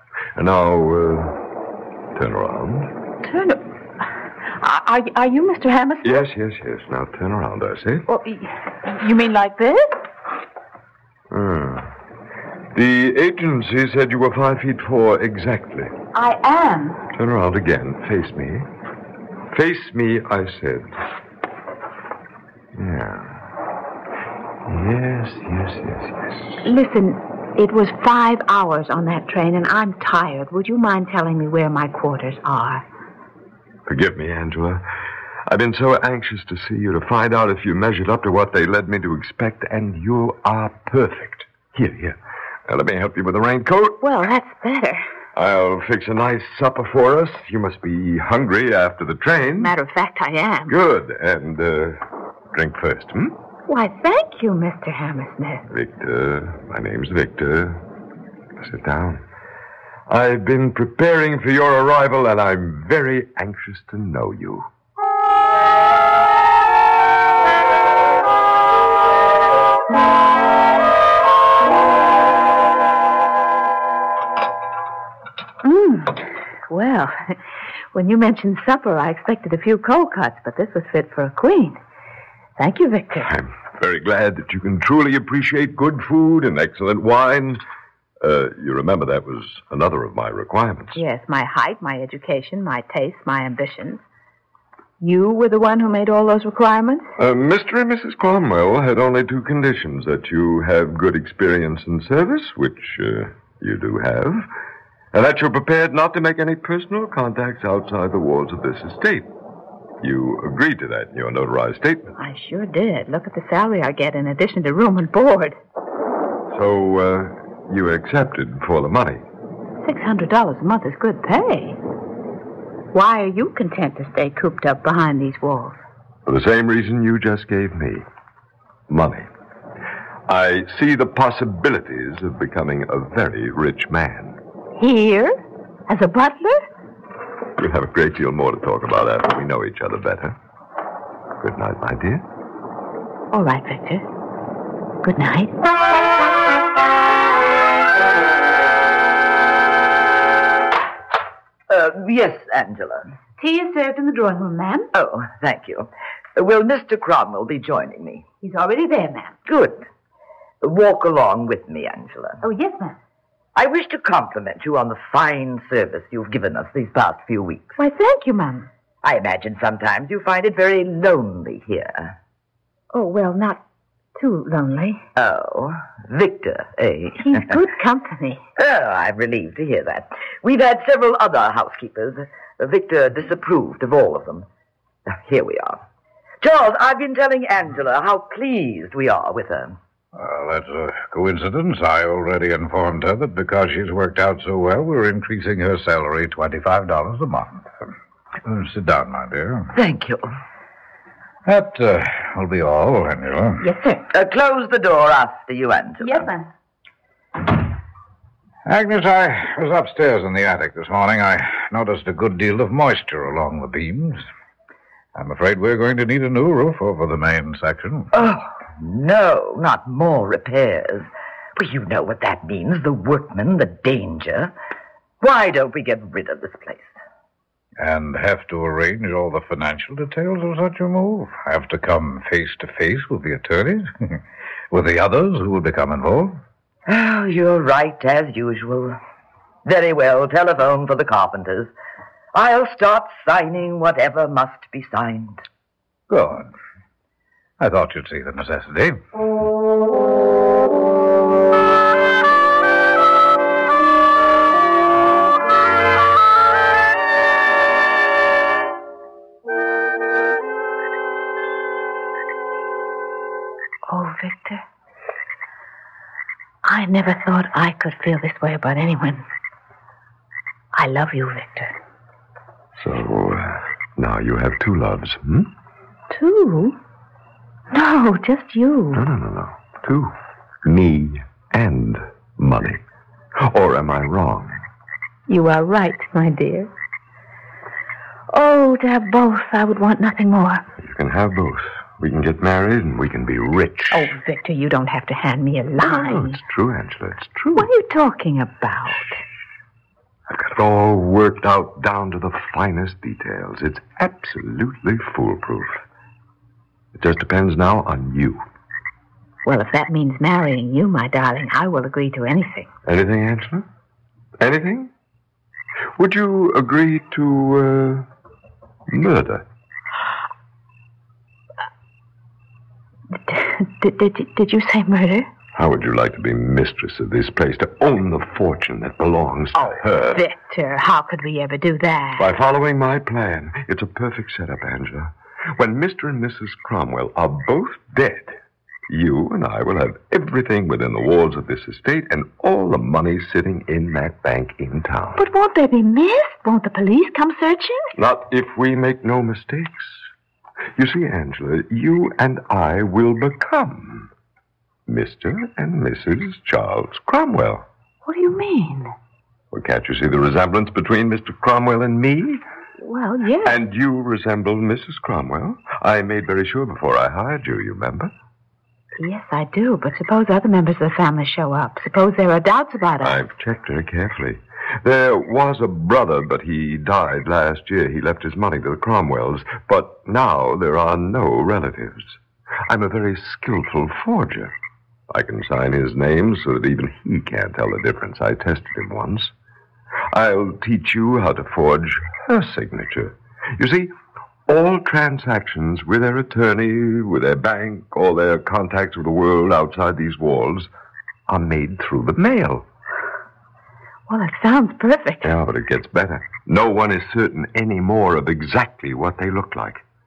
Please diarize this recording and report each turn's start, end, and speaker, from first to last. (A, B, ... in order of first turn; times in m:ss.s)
0:00.3-0:01.4 A
0:02.1-0:02.9 A
0:03.2-0:03.6 B
0:04.4-0:06.2 B
0:06.0-0:08.0 A
0:08.1-0:10.0 B
0:11.3-0:11.9 A
0:12.7-0:15.9 A
0:16.1-0:17.0 B
0:17.1-0:18.7 A
0:19.5-0:20.9 A
0:22.7-0:23.4 A
0:24.7-0:26.3 A
0:26.6-0:32.8 B
0:33.8-0:34.8 A
0:35.5-0:44.0 A
0:44.0-0:45.1 B
0:45.3-0:49.7 A
0:49.6-0:50.7 B
0:50.7-0:52.0 A
0:52.5-0:53.4 A
0:53.7-0:55.6 B
0:55.7-0:57.8 A
0:58.6-0:59.2 A
1:00.1-1:04.7 A
1:15.6-1:17.4 B
1:17.9-1:21.8 B
1:22.6-1:23.3 B
1:23.2-1:27.6 A
1:28.2-1:31.0 A
1:30.9-1:34.0 B
1:35.0-1:37.0 B
1:37.2-1:44.4 A
1:45.1-1:49.3 A
1:50.0-1:52.1 A
1:52.2-1:55.6 B
1:56.5-1:59.2 A
1:59.8-2:01.8 B
2:02.9-2:05.8 B
2:06.2-2:08.0 A
2:08.9-2:09.3 A
2:10.3-2:14.4 A
2:14.8-2:16.6 B
2:17.6-2:20.4 A
2:21.4-2:22.2 A
2:23.3-2:24.0 B
2:25.0-2:25.5 B
2:31.7-2:33.1 C
2:33.4-2:34.9 B
2:34.9-2:38.2 C
2:38.4-2:39.3 B
2:39.4-2:39.8 C
2:40.6-2:42.4 C
2:42.4-2:43.0 B
2:43.5-2:47.7 C
2:47.8-2:48.7 B
2:49.0-2:52.1 C
2:52.9-2:53.6 B
2:54.2-2:55.0 B
2:55.2-2:57.6 C
2:57.2-2:58.4 B
2:58.6-3:04.4 C
3:05.1-3:05.8 C
3:06.4-3:09.8 C
3:10.1-3:17.9 D
3:18.4-3:19.7 D
3:19.7-3:20.3 C
3:21.4-3:23.6 D
3:23.6-3:24.0 B
3:24.1-3:26.3 C
3:26.0-3:26.5 B
3:28.6-3:34.2 D
3:35.1-3:38.1 D
3:38.1-3:44.5 C
3:45.2-3:47.0 C
3:47.8-3:54.2 D
3:54.7-3:56.4 D
3:56.9-3:59.0 C
3:59.6-4:01.7 C
4:02.3-4:05.4 C
4:06.1-4:06.5 D
4:07.6-4:09.0 D
4:23.9-4:24.6 B
4:26.6-4:29.2 B
4:30.7-4:31.7 B
4:32.8-4:35.5 A
4:36.1-4:36.8 B
4:37.7-4:39.0 B
4:38.9-4:40.1 A
4:40.6-4:42.8 A
4:43.4-4:44.6 A
4:45.3-4:46.7 B
4:48.3-4:50.6 B
4:50.8-4:54.1 A
4:53.9-4:56.4 B
4:55.8-4:57.7 A
4:57.5-4:59.2 B
5:00.3-5:05.8 A
5:06.9-5:08.4 A
5:09.4-5:12.7 B
5:12.8-5:13.6 A
5:14.4-5:14.9 A
5:16.0-5:18.1 A
5:18.9-5:19.4 A
5:23.2-5:25.3 B
5:25.5-5:30.2 A
5:29.6-5:32.3 B
5:32.2-5:38.4 A
5:38.9-5:45.2 A
5:45.2-5:47.9 B
5:48.0-5:50.0 A
5:50.8-5:54.1 A
5:54.9-5:57.6 A
5:58.0-5:58.9 B
5:59.5-6:02.4 A
6:02.8-6:03.6 B
6:03.4-6:08.1 A
6:09.0-6:13.2 B
6:13.0-6:24.5 A
6:25.1-6:29.3 A
6:30.1-6:33.9 A
6:34.5-6:40.7 A
6:41.3-6:42.6 A
6:44.1-6:45.3 B
6:45.2-6:49.8 A